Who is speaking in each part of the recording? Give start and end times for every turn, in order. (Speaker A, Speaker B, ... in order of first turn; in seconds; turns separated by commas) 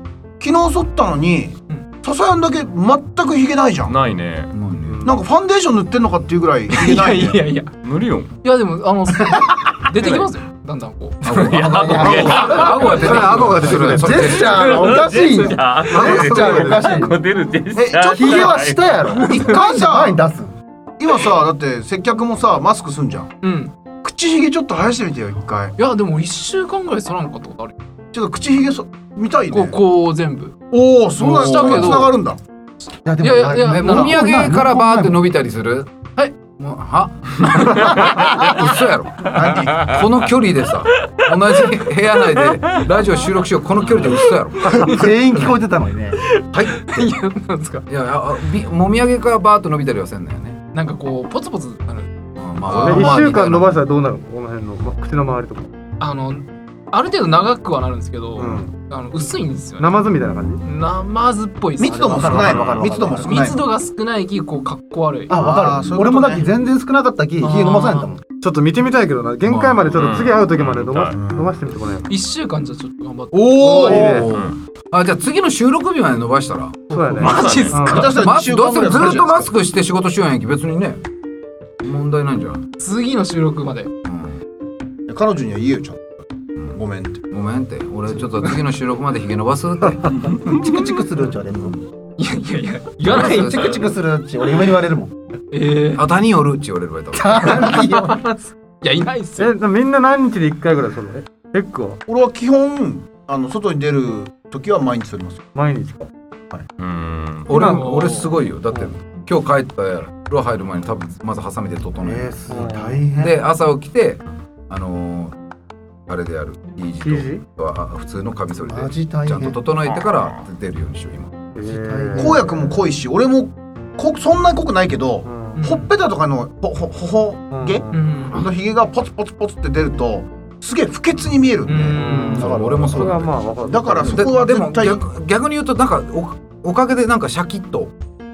Speaker A: 0.4-4.0, Speaker B: 3.9-4.5, Speaker C: 4.5-5.0, Speaker D: 4.8-5.2, Speaker A: 5.0-7.5, Speaker E: 6.7-7.7, Speaker B: 7.8-8.3, Speaker E: 8.4-12.6, Speaker B: 10.0-10.3, Speaker C: 11.2-14.9, Speaker B: 11.3-13.0, Speaker F: 11.7-17.2, Speaker D: 12.9-14.4, Speaker B: 14.5-19.6, Speaker D: 15.9-17.0, Speaker A: 17.8-20.2, Speaker F: 18.1-20.5, Speaker A: 21.0-23.3, Speaker E: 23.4-23.7, Speaker A: 24.0-25.8, Speaker E: 25.8-27.7, Speaker A: 28.1-29.8, Speaker E: 29.5-30.6, Speaker A: 30.7-32.4, Speaker E: 31.2-32.2, Speaker F: 33.0-35.2, Speaker E: 33.2-34.2, Speaker C: 33.6-45.5, Speaker A: 39.3-39.8, Speaker F: 44.8-46.2, Speaker C: 46.5-47.1, Speaker E: 46.8-47.8, Speaker C: 47.9-50.6, Speaker E: 50.7-52.1, Speaker C: 52.4-53.7, Speaker D: 52.7-55.7, Speaker E: 52.7-53.0, Speaker E: 56.0-60.1, Speaker D: 58.4-58.7, Speaker A: 58.4-58.6, Speaker D: 59.8-60.6, Speaker E: 60.7-62.5, Speaker A: 61.8-63.6, Speaker F: 61.8-63.5, Speaker B: 62.3-62.7, Speaker E: 63.2-65.3, Speaker F: 65.3-68.2, Speaker A: 65.3-66.5, Speaker E: 67.4-68.1, Speaker D: 68.4-72.1, Speaker C: 69.5-69.9, Speaker B: 69.9-71.2, Speaker A: 71.1-71.5, Speaker E: 72.1-73.7, Speaker A: 73.3-74.3, Speaker D: 73.6-74.3, Speaker F: 73.7-74.3, Speaker C: 73.9-77.0, Speaker D: 76.9-78.2, Speaker E: 77.0-78.2, Speaker B: 77.2-77.9, Speaker A: 77.4-79.5, Speaker C: 78.0-81.0, Speaker C: 81.8-82.6, Speaker E: 82.8-83.9, Speaker C: 84.1-84.4, Speaker A: 85.1-87.2, Speaker C: 87.3-90.1, Speaker F: 90.4-91.8, Speaker E: 92.2-93.9, Speaker C: 93.0-93.8, Speaker F: 93.1-95.1, Speaker E: 95.5-96.0, Speaker C: 95.9-97.8, Speaker F: 97.1-98.2, Speaker E: 97.9-99.5, Speaker D: 99.4-102.0, Speaker A: 102.1-105.4, Speaker D: 105.5-106.1, Speaker B: 106.8-107.5, Speaker C: 107.5-112.3, Speaker E: 107.5-108.4, Speaker D: 107.6-107.8, Speaker F: 112.0-113.3, Speaker D: 112.5-113.0, Speaker C: 113.2-115.3, Speaker C: 116.1-121.3, Speaker D: 117.0-117.4, Speaker F: 118.7-119.6, Speaker D: 121.5-122.7, Speaker F: 121.7-122.7, Speaker A: 122.2-132.0, Speaker D: 125.3-125.6, Speaker E: 125.6-125.9, Speaker D: 127.5-128.1, Speaker E: 127.9-128.5, Speaker E: 131.7-132.5, Speaker D: 132.0-134.3, Speaker F: 132.1-133.1, Speaker C: 132.3-133.4, Speaker A: 133.7-135.0, Speaker C: 134.0-137.9